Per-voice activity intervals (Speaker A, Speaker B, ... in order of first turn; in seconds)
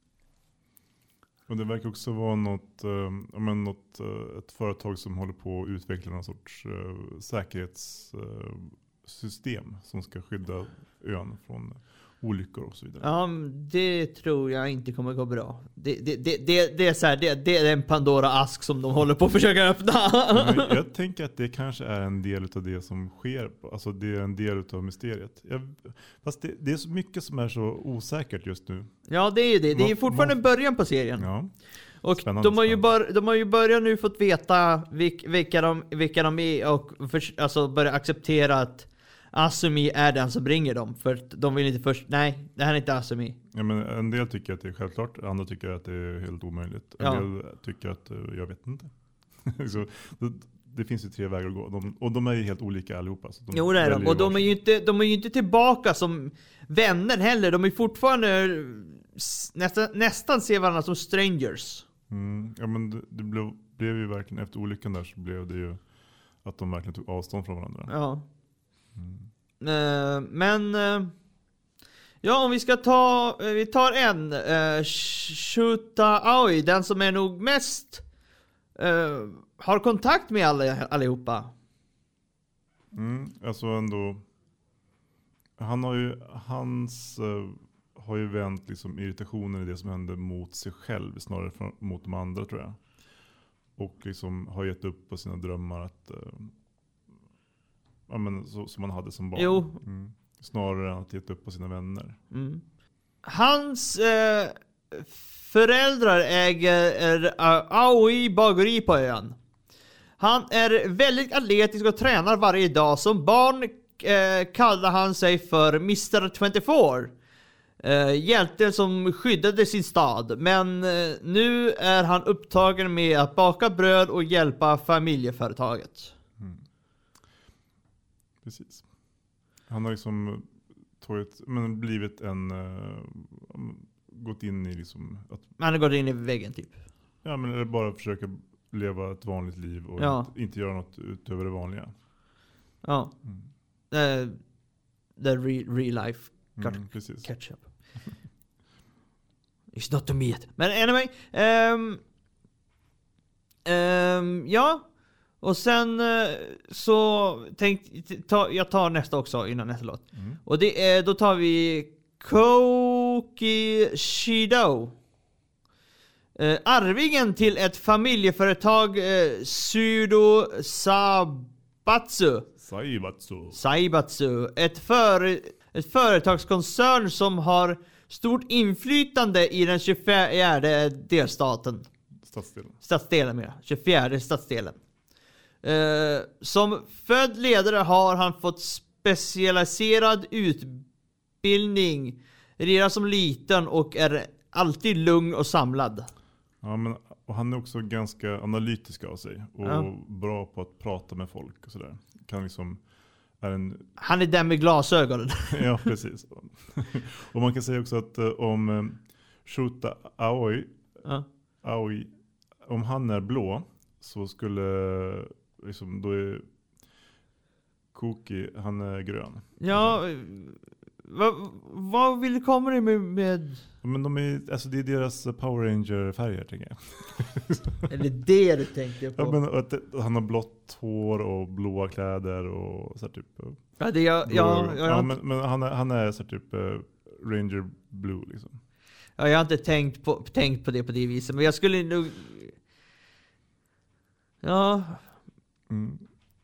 Speaker A: 1.5-13.1, 20.3-28.9, 29.7-30.4, 31.2-31.5, 32.2-32.9, 43.5-54.5, 62.1-65.8, 66.4-67.9, 69.0-69.3, 82.9-84.2, 85.6-92.8, 93.8-96.5, 98.1-102.2, 126.4-126.7, 128.4-128.8, 129.7-135.5, 137.2-141.9, 146.6-147.3, 160.1-160.4, 172.6-173.6, 182.2-182.8, 196.6-202.8, 203.4-203.9, 205.5-210.8, 211.6-216.5, 217.9-220.0, 223.8-227.9, 229.2-233.6, 234.2-238.6, 245.7-246.1
Speaker B: 13.0-20.8, 29.1-31.3, 32.0-43.4, 47.0-47.2, 53.5-61.9, 67.9-68.2, 69.6-71.1, 72.2-78.0, 78.8-81.5, 99.4-99.8, 102.3-102.6, 103.2-109.4, 110.2-117.1, 117.8-126.1, 135.6-136.8, 140.0-140.3, 142.8-143.1, 143.9-144.4, 145.2-147.6, 149.7-152.0, 153.7-154.8, 155.4-164.9, 166.4-172.5, 173.6-181.9, 182.8-184.8, 185.6-190.9, 191.4-196.1, 199.6-199.9, 204.0-205.9, 219.6-223.6, 227.9-229.4, 233.8-235.1, 239.2-242.6, 244.4-245.0